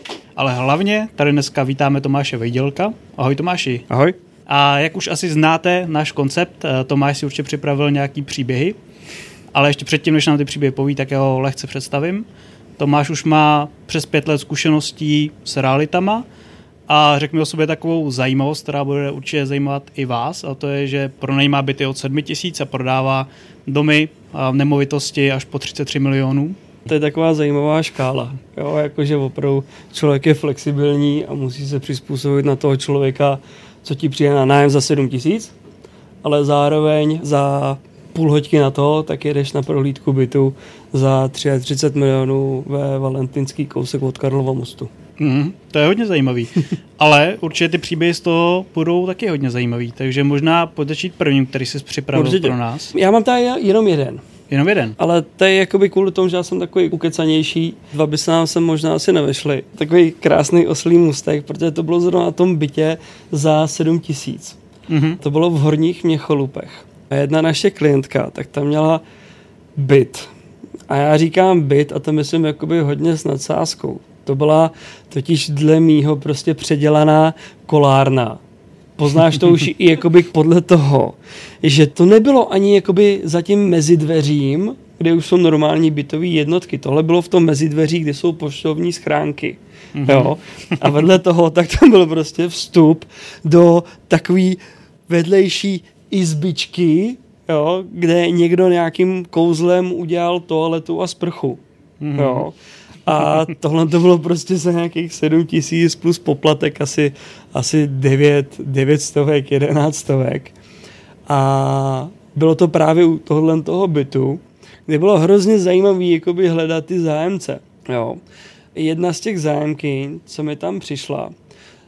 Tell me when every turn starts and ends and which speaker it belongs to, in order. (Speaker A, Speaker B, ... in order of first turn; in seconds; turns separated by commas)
Speaker A: 0.4-3.9, Speaker B: 3.9-4.2, Speaker A: 4.5-8.8, Speaker A: 9.5-12.3, Speaker A: 12.8-16.3, Speaker A: 16.9-26.6, Speaker B: 26.9-35.5, Speaker B: 36.2-44.9, Speaker A: 45.2-52.9, Speaker B: 52.1-54.2, Speaker A: 54.5-55.0, Speaker B: 55.0-64.6, Speaker A: 64.9-65.2, Speaker B: 65.2-69.0, Speaker B: 69.8-70.3, Speaker B: 70.9-78.4, Speaker B: 79.0-101.6, Speaker A: 90.0-90.9, Speaker A: 102.0-102.5, Speaker B: 102.2-102.5, Speaker B: 103.0-110.5, Speaker B: 111.3-118.2, Speaker B: 118.8-121.3